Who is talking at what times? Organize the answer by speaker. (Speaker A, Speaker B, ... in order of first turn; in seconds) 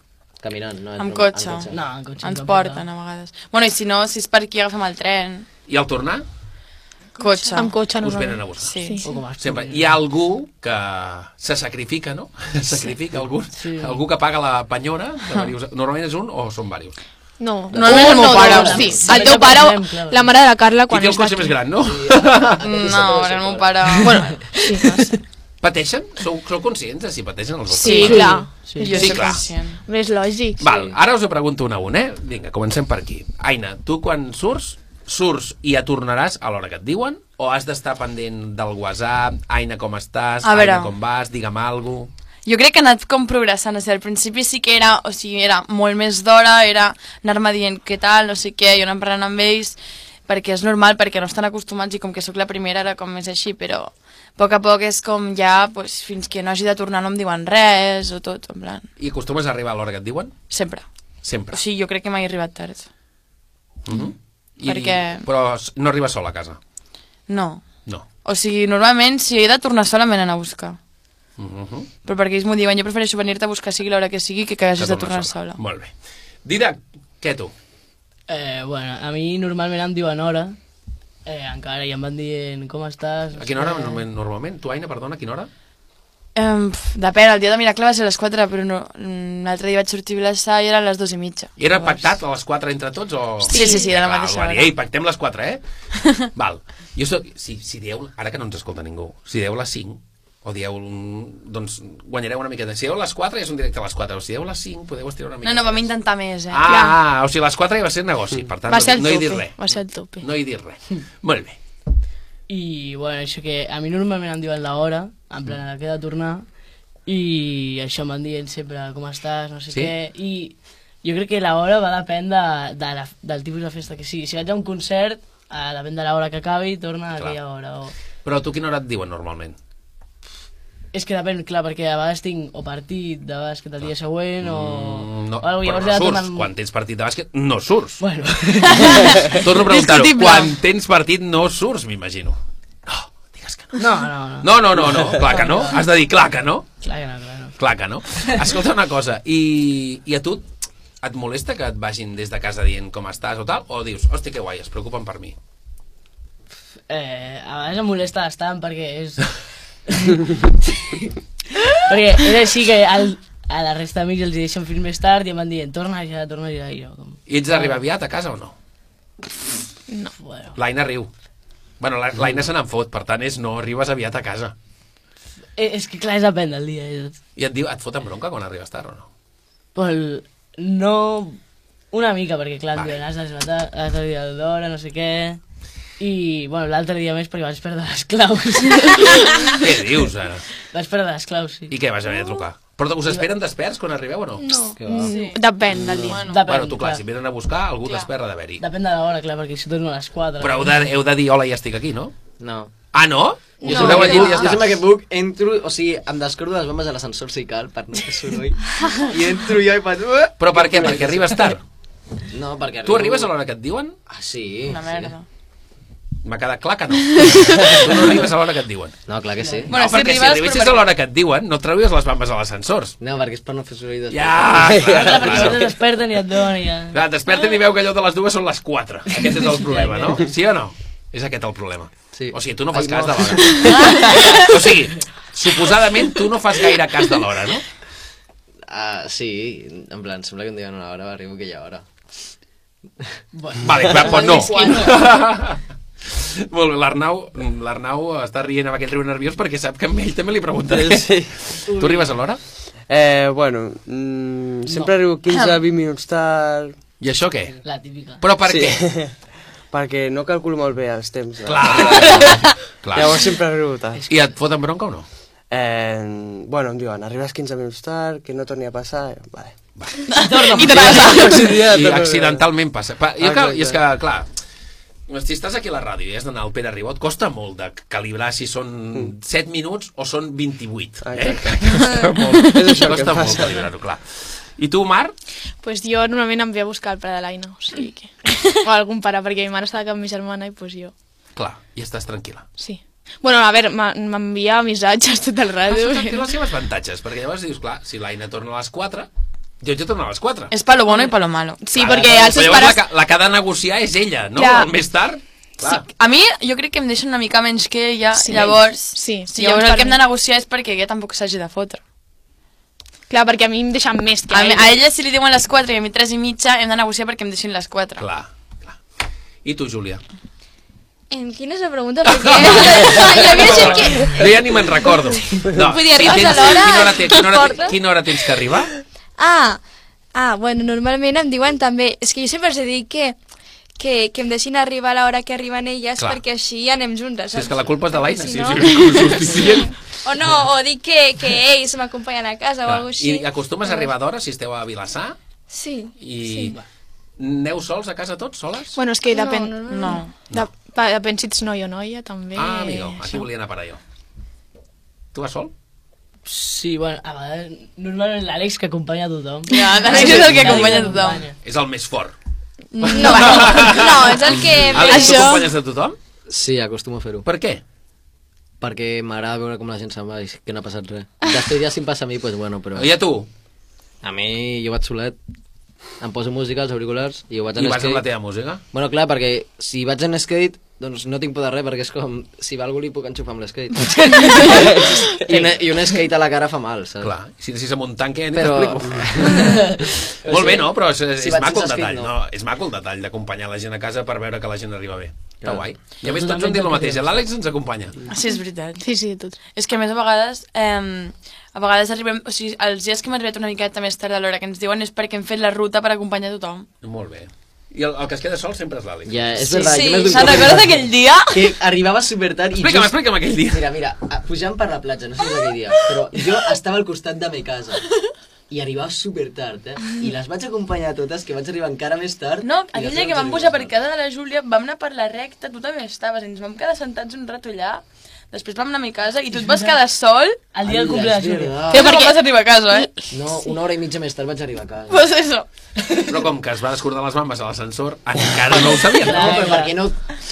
Speaker A: 0.4-1.9, 17.7-19.3, 21.8-24.3, 30.6-30.9, 194.8-195.2, 202.4-202.7, 203.6-211.5, 212.3-213.3, 214.1-215.1, 219.1-219.7, 223.0-224.7, 232.1-233.5, 238.7-241.8, 301.8-302.4, 366.3-367.2, 368.6-372.9, 374.0-375.1, 376.0-378.0, 378.7-387.1, 388.3-389.5, 390.2-392.1, 395.4-395.7, 409.1-412.9, 413.5-417.8, 418.5-423.7, 430.6-432.0, 433.1-435.1, 439.1-440.0
Speaker B: 1.0-5.5, 7.2-7.8, 8.6-9.0, 17.7-19.3, 22.6-24.9, 27.7-29.8, 40.4-40.9, 42.5-58.9, 60.5-60.8, 61.5-62.9, 64.6-65.3, 67.3-70.8, 72.0-75.6, 86.3-92.1, 93.4-94.7, 105.4-106.7, 139.7-140.5, 195.0-196.5, 214.7-215.2, 217.2-217.8, 219.7-220.8, 244.1-245.0, 270.1-271.5, 300.5-301.7, 305.6-311.8, 314.3-318.0, 349.7-350.1, 359.5-361.2, 364.9-365.4, 398.1-398.8, 399.5-406.7, 409.5-411.6, 422.4-430.5, 431.7-432.9, 434.9-435.4
Speaker C: 1.7-2.8, 9.0-10.0, 13.5-14.0, 17.9-20.3, 24.7-25.0, 28.3-29.1, 78.3-80.6, 81.2-84.0, 112.5-116.5, 117.0-127.9, 130.9-136.5, 138.0-139.4, 143.8-145.8, 146.8-147.5, 156.9-159.3, 159.9-160.3, 161.9-167.8, 170.2-170.6, 175.6-177.2, 179.7-181.4, 181.9-185.4, 186.0-189.6, 190.7-191.7, 196.2-197.0, 198.6-200.8, 219.4-219.7, 224.9-227.0, 229.1-230.3, 233.7-234.2, 243.3-244.9, 254.7-254.9, 257.6-258.2, 270.1-271.4, 356.2-361.4, 389.4-389.8, 396.0-397.3, 429.3-429.8, 430.5-431.6, 439.0-439.8
Speaker D: 5.7-6.2, 7.9-8.8, 9.4-17.0, 20.9-22.6, 25.6-28.4, 28.9-29.4, 30.6-42.1, 59.0-60.3, 61.2-61.6, 63.9-66.6, 71.4-71.9, 74.8-75.9, 76.4-77.5, 83.3-85.5, 91.6-95.6, 96.3-105.9, 106.5-111.6, 127.2-127.4, 128.2-129.6, 133.8-138.0, 139.3-143.8, 144.4-146.7, 147.6-150.4, 151.0-155.3, 167.3-168.5, 170.5-171.1, 171.8-174.5, 177.3-179.1, 182.7-183.0, 189.6-190.4, 191.7-194.5, 196.4-198.6, 200.4-202.1, 202.9-204.8, 210.4-211.6, 212.8-213.9, 216.2-219.0, 219.7-222.9, 224.1-225.7, 226.9-237.6, 243.6-252.4, 257.0-257.6, 258.2-258.8, 261.4-263.2, 264.1-265.1, 269.8-270.0, 271.5-274.3, 275.1-285.1, 291.4-292.4, 295.7-299.1, 299.6-300.5, 301.8-305.9, 318.0-318.8, 319.4-320.0, 322.0-328.7, 337.3-339.7, 342.6-345.2, 346.0-346.6, 347.2-348.8, 352.3-353.8, 355.1-355.5, 361.4-362.1, 362.8-366.0, 367.2-367.6, 372.7-373.3, 377.6-378.6, 387.0-397.9, 406.8-409.4, 412.6-413.8, 436.1-439.4
Speaker E: 7.5-9.1, 17.4-21.7, 24.0-25.0, 27.8-30.6, 93.5-93.9, 106.7-107.0, 108.7-110.2, 194.8-196.3, 270.4-271.3, 285.6-290.9, 292.6-296.3, 300.9-302.8, 304.4-304.7, 308.1-310.0, 313.1-314.7, 348.7-353.2, 362.8-363.5, 364.8-365.4, 398.8-399.4, 431.8-432.1, 432.7-433.0
Speaker F: 194.4-194.8, 203.6-204.5, 321.1-324.2, 325.5-327.8, 329.2-329.6, 330.1-333.1, 333.8-343.9, 345.5-346.6, 349.1-350.0, 362.8-365.3, 409.5-410.3
Speaker G: 195.7-196.2, 224.7-225.1, 250.7-251.3, 252.9-256.7, 258.5-259.1, 259.7-262.3, 262.9-264.0, 265.5-269.5, 270.9-272.5, 273.2-273.8, 281.0-283.6, 325.5-325.8